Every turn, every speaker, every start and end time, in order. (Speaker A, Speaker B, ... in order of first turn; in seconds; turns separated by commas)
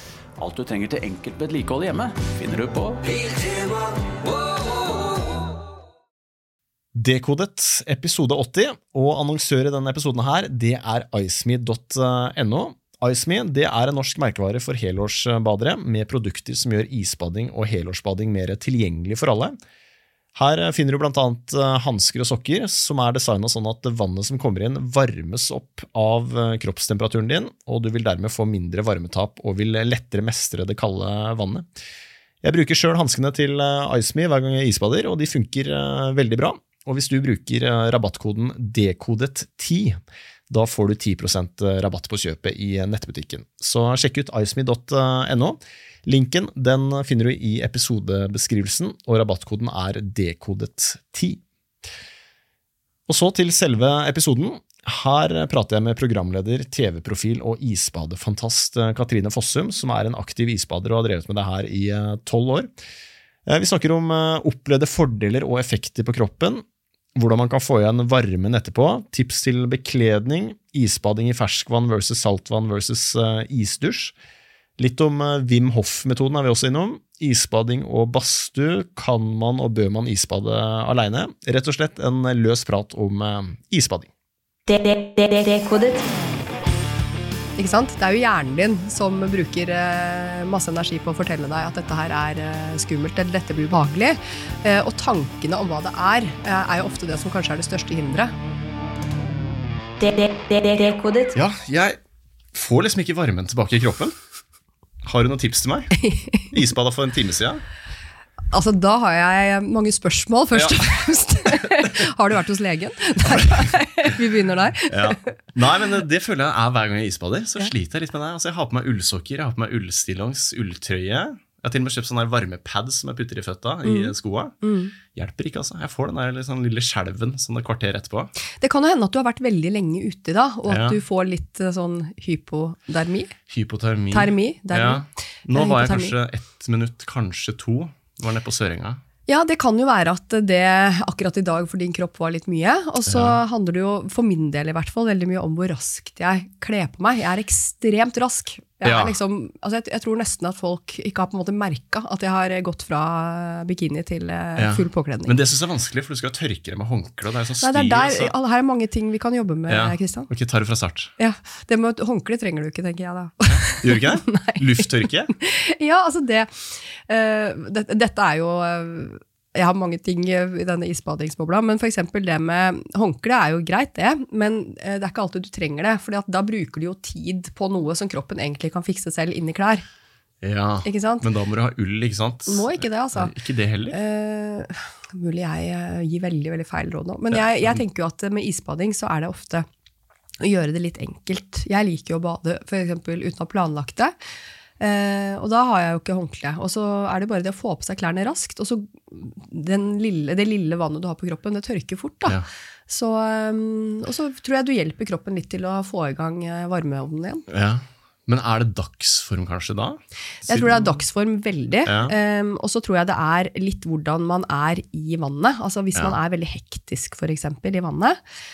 Speaker A: 0.4-3.7, Speaker B: 7.0-19.6, Speaker B: 20.4-31.7, Speaker B: 32.4-51.4, Speaker B: 53.1-62.7, Speaker B: 63.5-66.6, Speaker B: 67.1-74.1, Speaker B: 74.8-84.1, Speaker C: 84.7-86.0, Speaker D: 87.6-98.3, Speaker C: 100.0-101.3, Speaker B: 101.3-102.0, Speaker B: 102.5-104.2, Speaker B: 105.0-105.9, Speaker D: 106.0-106.5, Speaker B: 106.5-107.6, Speaker D: 108.5-115.3, Speaker B: 110.5-110.9, Speaker B: 111.5-112.0, Speaker B: 113.2-114.1, Speaker B: 114.9-124.5, Speaker D: 123.8-125.0, Speaker B: 125.1-128.3, Speaker D: 128.6-133.3, Speaker B: 130.7-131.0, Speaker B: 133.5-139.0, Speaker D: 134.1-136.2, Speaker D: 139.3-155.3, Speaker B: 143.1-143.4, Speaker B: 148.8-149.2, Speaker B: 154.6-158.3, Speaker D: 157.6-160.3, Speaker B: 159.7-161.1, Speaker D: 161.2-179.8, Speaker B: 163.5-165.3, Speaker B: 180.4-184.0, Speaker D: 180.8-181.3, Speaker D: 182.5-183.3, Speaker D: 183.9-189.7, Speaker B: 187.3-187.8, Speaker D: 190.4-194.1, Speaker D: 194.8-207.5, Speaker B: 207.5-211.0, Speaker D: 210.5-218.2, Speaker B: 211.9-212.2